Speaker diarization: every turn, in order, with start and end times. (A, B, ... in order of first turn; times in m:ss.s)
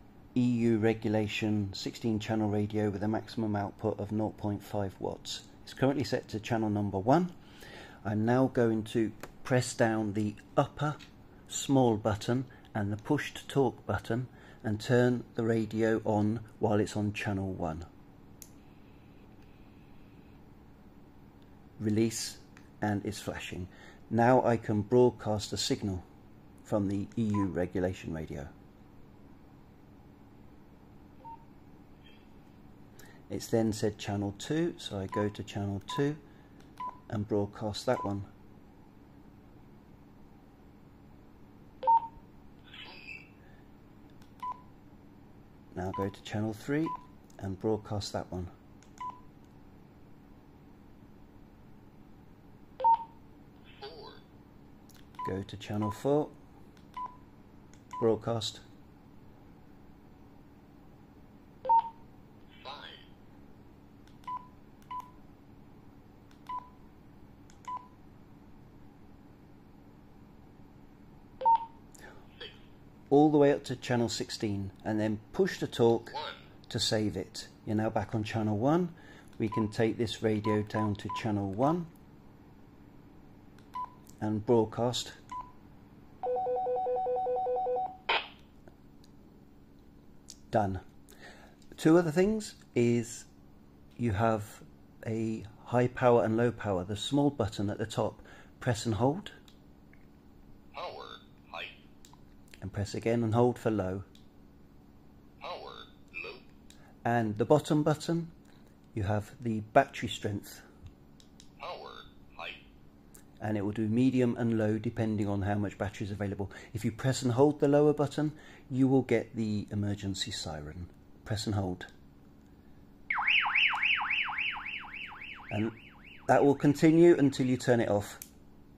0:00.4-0:07.3 A
0:08.0-0:11.0 A
0:11.5-0:17.9 A
0:21.8-0:26.0 A
0:26.6-0:28.5 A
0:33.3-0:36.2 A
0:37.1-0:38.3 A
0:45.7-0:48.5 A
0:53.8-0:54.2 B
0:55.2-0:56.3 A
0:58.0-0:58.6 A
1:02.6-1:02.9 B
1:13.1-1:21.9 A
1:24.2-1:25.2 A
1:30.5-1:30.8 A
1:31.8-1:33.3 A
1:34.0-1:39.3 A
1:40.7-1:41.7 B
1:42.6-1:44.1 A
1:45.4-1:46.4 B
1:47.0-1:48.3 A
1:48.9-1:50.6 A
1:51.6-1:52.6 B
1:53.4-2:01.9 A
2:05.5-2:05.8 A
2:06.3-2:08.2 A